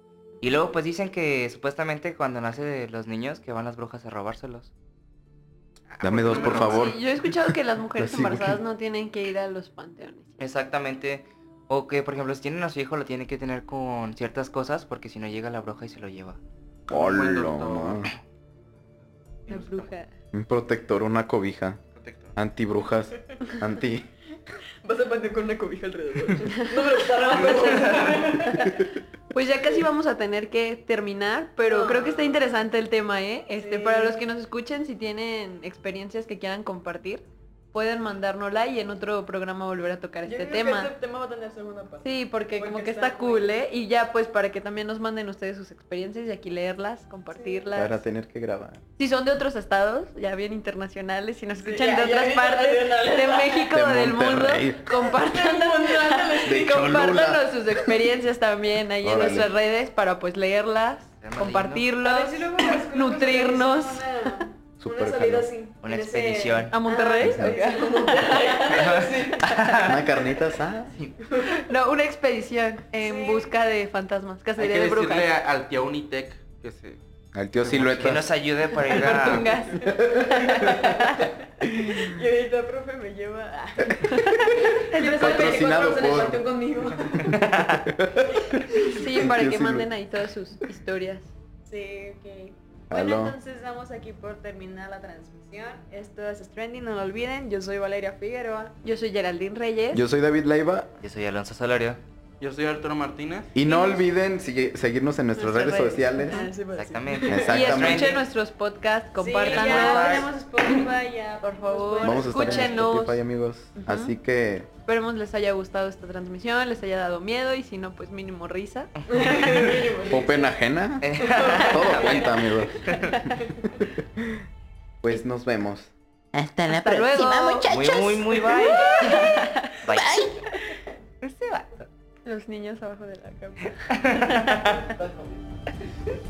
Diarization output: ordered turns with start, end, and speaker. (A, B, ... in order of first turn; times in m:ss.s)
0:00.4-0:04.7 A
0:05.9-0:07.0 B
0:06.0-0:08.6 C
0:06.3-0:10.4 D
0:10.4-0:16.4 A
0:16.9-0:18.1 C
0:16.9-0:18.1 B
0:19.5-0:19.9 B
0:19.5-0:20.1 D
0:20.3-0:21.8 C
0:21.9-0:22.4 B
0:22.4-0:24.0 C
0:24.8-0:28.9 E
0:26.6-0:28.7 D
0:29.3-0:40.9 D
0:31.6-0:32.5 E
0:33.6-0:34.2 E
0:40.2-0:43.5 E
0:42.0-0:48.0 D
0:47.3-0:47.7 E
0:47.7-0:48.8 C
0:49.0-1:04.5 D
0:51.6-0:53.7 E
0:53.7-0:55.0 C
0:55.0-0:56.9 E
0:56.4-0:57.9 C
0:59.0-0:59.5 C
1:01.2-1:01.9 A
1:02.0-1:10.2 E
1:04.8-1:05.5 C
1:05.8-1:06.8 A
1:06.7-1:09.6 D
1:07.2-1:07.6 C
1:08.7-1:10.2 A
1:09.8-1:10.9 C
1:11.3-1:11.6 E
1:11.5-1:15.3 D
1:13.0-1:13.5 E
1:14.6-1:17.0 B
1:17.3-1:18.3 C
1:17.6-1:18.2 B
1:17.9-1:19.5 A
1:18.9-1:21.3 D
1:18.9-1:19.5 B
1:19.8-1:20.4 C
1:19.8-1:27.5 E
1:21.8-1:22.1 C
1:24.0-1:25.5 D
1:25.0-1:26.4 C
1:27.1-1:29.9 C
1:27.3-1:27.8 A
1:28.5-1:29.0 E
1:28.8-1:31.3 D
1:31.6-1:38.8 E
1:32.9-1:33.4 C
1:38.8-1:40.0 D
1:39.9-1:40.9 C
1:41.0-1:42.0 A
1:42.4-1:43.6 B
1:43.5-1:46.5 C
1:43.6-1:44.0 E
1:45.4-1:46.5 D
1:45.4-1:47.8 E
1:46.8-1:48.2 A
1:47.2-1:48.2 C
1:47.4-1:50.8 D
1:49.2-1:53.0 E
1:49.4-1:50.3 A
1:51.4-1:53.2 D
1:52.0-1:54.7 C
1:53.7-1:54.1 D
1:54.8-1:59.4 D
1:59.1-2:00.5 E
1:59.1-1:59.7 A
2:00.1-2:03.0 C
2:01.0-2:03.1 A
2:01.2-2:03.7 E
2:03.8-2:04.4 C
2:05.0-2:05.9 C
2:06.4-2:10.4 A
2:06.6-2:07.7 D
2:07.6-2:08.4 C
2:08.5-2:09.3 E
2:08.6-2:09.8 D
2:11.2-2:11.9 A
2:12.2-2:14.4 D
2:13.9-2:15.3 A